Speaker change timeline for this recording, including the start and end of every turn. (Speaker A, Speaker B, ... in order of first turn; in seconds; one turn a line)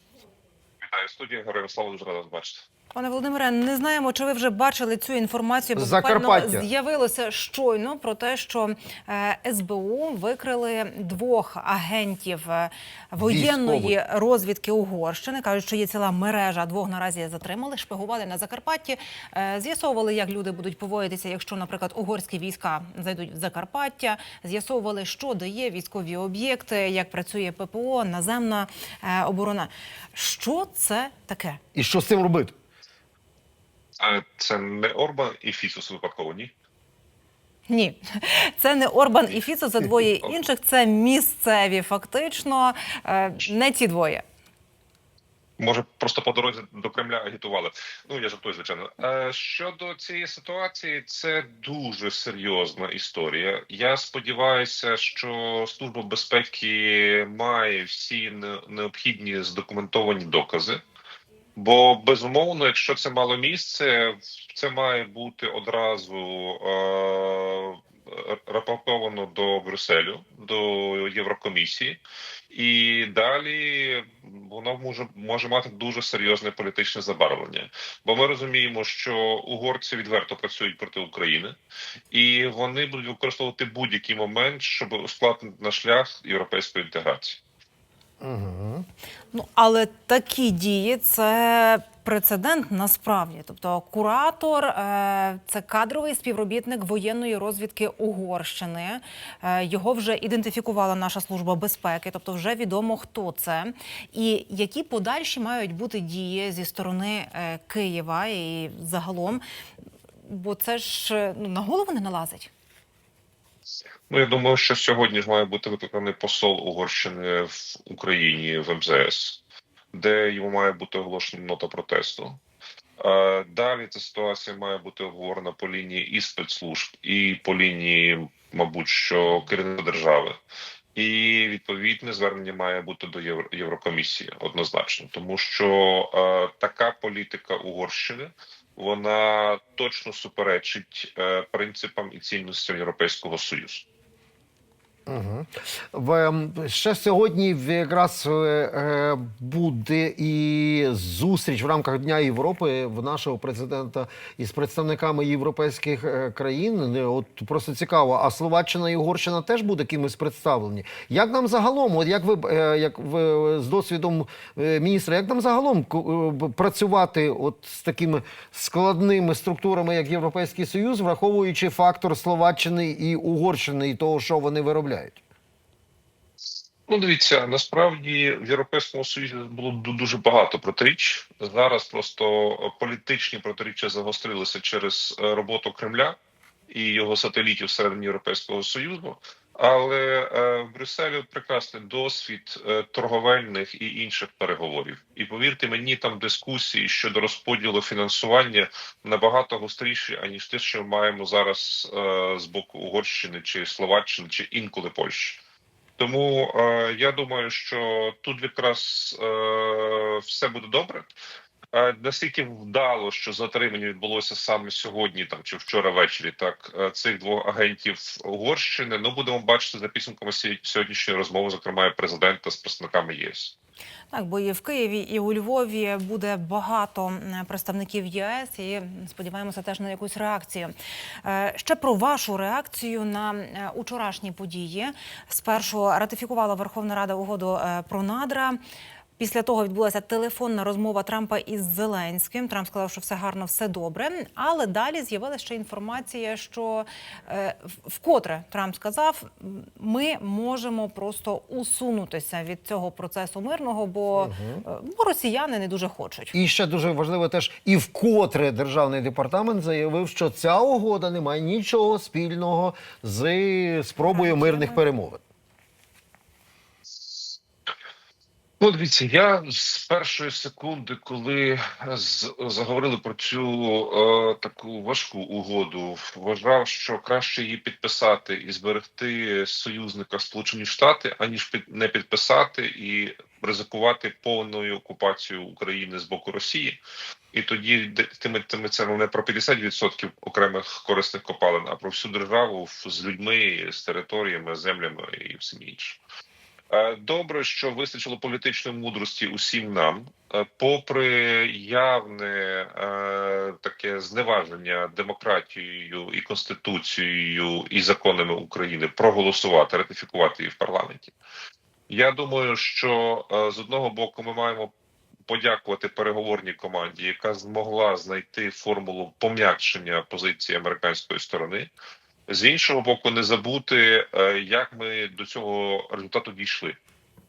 Speaker A: 0.8-2.7
Speaker B: 2.9-31.6
Speaker C: 5.8-6.7
Speaker C: 13.2-13.9
Speaker C: 31.7-32.5
Speaker A: 34.0-36.5
Speaker B: 37.7-44.2
Speaker A: 45.6-60.8
Speaker A: 61.5-81.6
Speaker A: 82.1-87.4
Speaker C: 88.2-88.8
Speaker B: 89.3-109.4
Speaker B: 110.2-112.5
Speaker A: 114.1-119.4
Speaker A: 119.9-122.4
Speaker A: 123.0-130.4
Speaker A: 130.9-143.9
Speaker C: 145.1-175.2
Speaker A: 176.9-186.2
Speaker A: 186.7-205.4
Speaker A: 206.0-211.1
Speaker A: 211.7-223.5
Speaker B: 224.1-230.7
Speaker B: 231.2-238.6
Speaker B: 239.2-256.4
Speaker C: 254.2-254.6
Speaker C: 256.3-265.2
Speaker B: 264.0-264.8
Speaker A: 267.0-267.3
Speaker A: 268.6-286.8
Speaker A: 287.3-296.0
Speaker A: 296.7-311.1
Speaker A: 311.9-314.7
Speaker A: 315.3-321.7
Speaker A: 322.3-326.8